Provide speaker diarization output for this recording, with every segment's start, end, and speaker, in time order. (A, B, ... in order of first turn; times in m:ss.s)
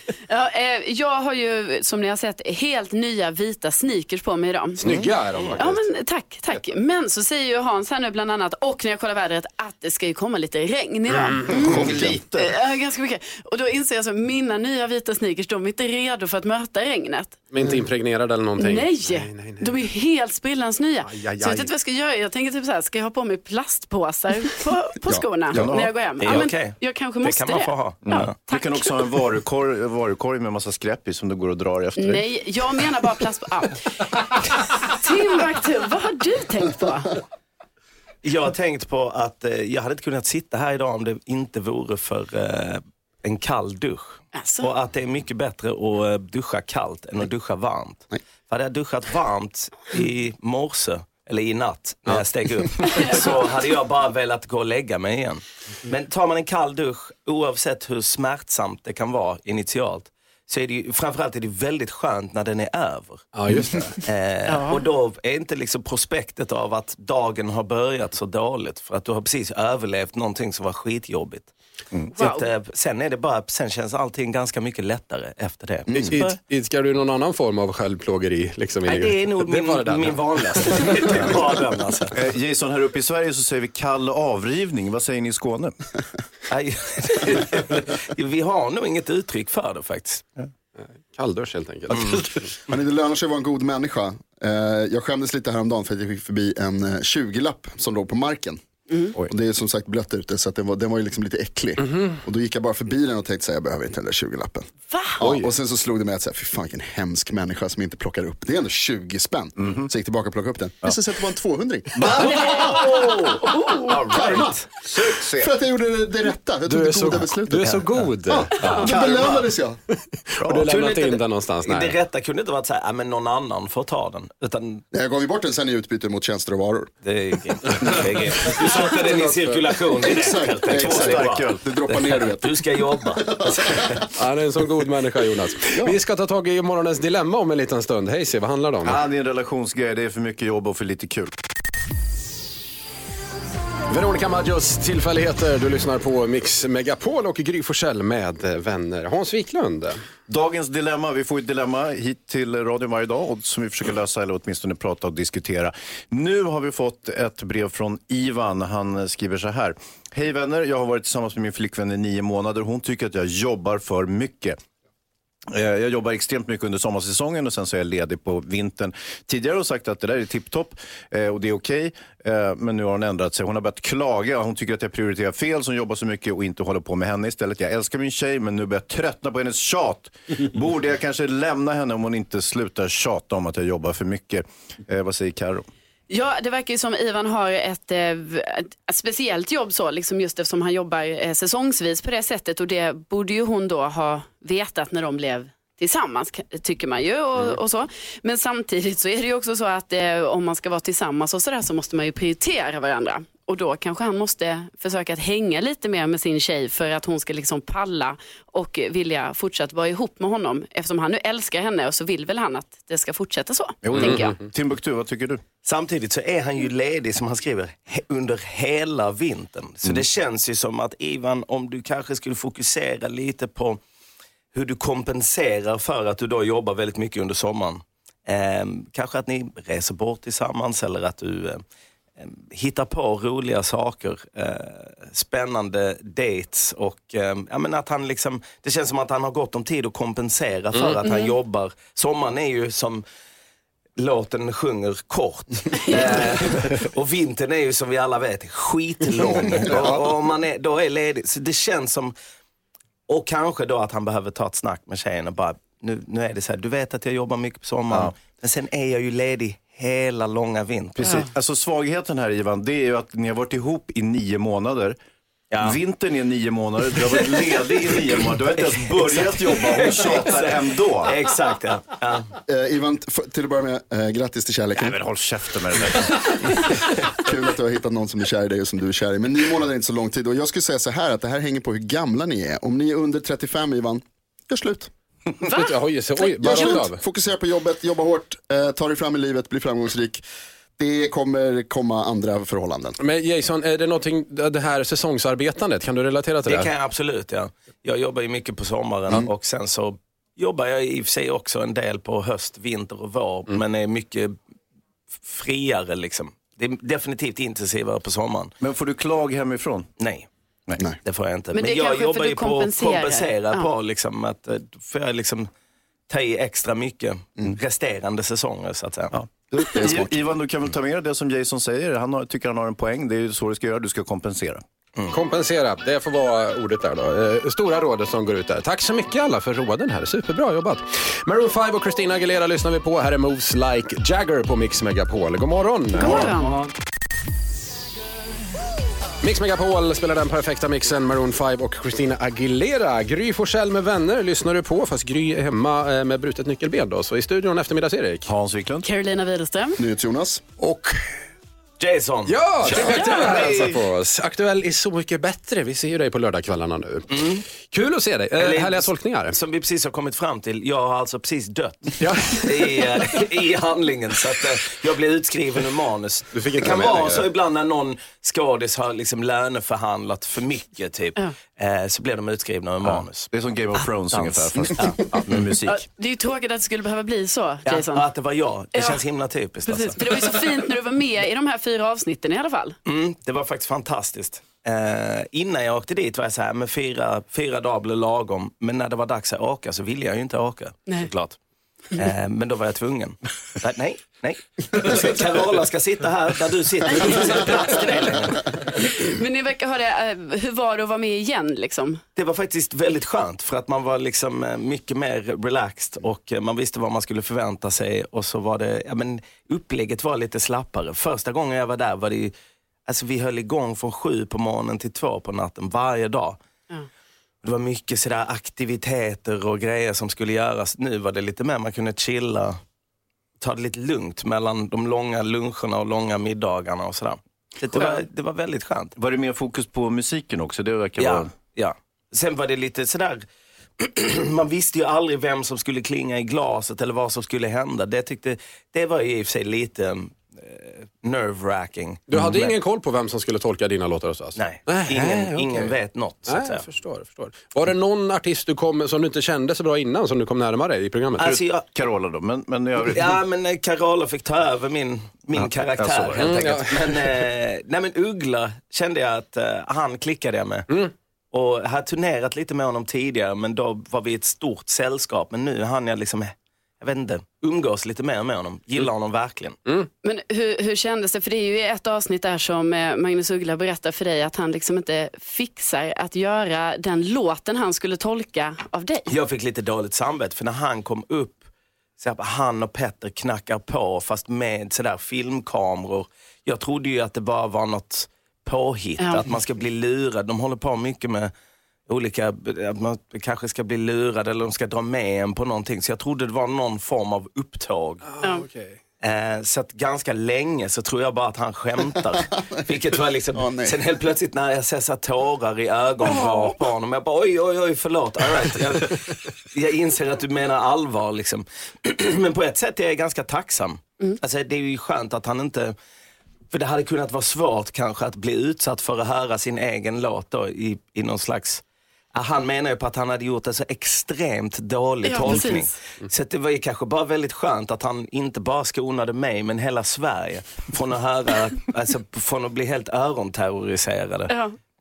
0:00.3-0:04.8 A
0:04.8-0:05.8 B
0:05.6-0:17.4 A
0:11.5-0:12.5 C
0:17.5-0:19.7 B
0:18.6-0:28.9 A
0:21.0-0:21.7 B
0:25.5-0:26.5 C
0:26.2-0:28.3 D
0:28.0-0:32.2 C
0:32.0-0:37.2 A
0:38.2-1:03.2 D
0:44.3-0:44.7 A
1:03.3-1:04.0 B
1:04.0-1:11.5 D
1:12.1-1:12.5 A
1:12.2-1:16.4 D
1:15.9-1:16.2 E
1:16.0-1:21.0 B
1:18.8-1:22.1 D
1:22.1-1:25.8 C
1:26.5-1:30.2 D
1:31.1-1:32.5 B
1:32.7-1:38.6 E
1:39.2-1:44.7 E
1:41.9-1:42.1 B
1:44.9-1:45.2 A
1:45.2-1:52.6 E
1:45.2-1:45.5 B
1:49.6-1:49.9 C
1:52.0-1:52.7 C
1:52.2-1:54.6 D
1:52.4-1:53.9 A
1:54.1-1:54.6 E
1:54.8-1:55.5 C
1:55.4-1:59.8 E
1:56.7-1:58.8 B
1:58.6-1:58.9 C
1:58.9-1:59.4 D
2:00.3-2:01.9 B
2:00.4-2:00.7 C
2:00.7-2:04.8 D
2:04.9-2:06.9 E
2:07.0-2:14.0 D
2:08.9-2:09.6 B
2:10.1-2:13.9 E
2:10.7-2:11.6 C
2:14.2-2:19.0 B
2:18.8-2:21.3 C
2:23.9-2:30.0 B
2:30.3-2:44.6 C
2:45.5-3:05.6 C
3:06.1-3:34.4 A
3:33.8-3:35.4 C
3:34.0-3:34.4 B
3:35.6-3:43.8 D
3:44.5-3:51.6 D
3:52.2-4:03.0 D
4:04.0-4:12.1 D
4:13.1-4:21.2 D
4:21.0-4:25.0 C
4:25.5-4:25.8 D
4:25.6-4:31.1 C
4:27.1-4:27.9 D
4:28.6-4:32.3 D
4:32.5-4:35.0 E
4:34.8-4:36.3 C
4:37.2-4:44.9 E
4:45.4-4:46.7 A
4:45.5-4:47.0 B
4:46.4-4:50.2 E
4:50.8-4:53.0 E
4:53.0-4:56.7 B
4:56.4-5:04.4 D
5:05.2-5:08.5 D
5:08.6-5:09.9 C
5:10.0-5:10.3 D
5:11.0-5:15.5 D
5:11.5-5:13.7 A
5:16.1-5:19.1 D
5:19.1-5:24.6 C
5:19.7-5:20.1 E
5:25.1-5:36.4 B
5:36.0-5:36.6 A
5:39.2-5:48.3 B
5:48.2-5:48.8 C
5:48.8-5:49.8 A
5:49.8-5:50.4 E
5:50.6-5:51.0 B
5:51.8-5:53.7 D
5:52.2-5:59.4 B
5:52.6-5:53.8 C
5:57.1-5:57.4 D
5:58.4-6:13.3 D
6:02.0-6:02.9 B
6:06.3-6:07.2 B
6:12.8-6:15.8 C
6:14.1-6:15.2 D
6:15.7-6:18.0 A
6:17.6-6:20.0 D
6:19.6-6:22.8 A
6:22.8-6:31.4 D
6:31.9-6:38.4 D
6:36.9-6:42.0 A
6:42.2-6:52.3 D
6:52.9-6:56.4 D
6:57.4-7:02.6 D
7:03.4-7:08.9 D
7:09.0-7:11.3 C
7:11.0-7:13.2 D
7:13.8-7:22.5 D
7:22.1-7:25.7 B
7:24.4-7:26.6 D
7:26.3-7:31.3 B
7:31.2-7:31.6 D
7:31.2-7:33.2 C
7:32.9-7:40.7 D
7:35.4-7:36.4 C
7:36.2-7:36.7 B
7:41.3-7:49.6 D
7:50.0-7:59.1 A
7:59.1-8:01.5 D
8:02.0-8:11.3 D
8:09.0-8:09.2 A
8:11.9-8:18.0 D
8:18.1-8:18.8 B
8:19.0-8:35.7 D
8:23.3-8:23.8 E
8:36.5-8:41.6 D
8:42.1-8:54.3 D
8:45.0-8:45.7 A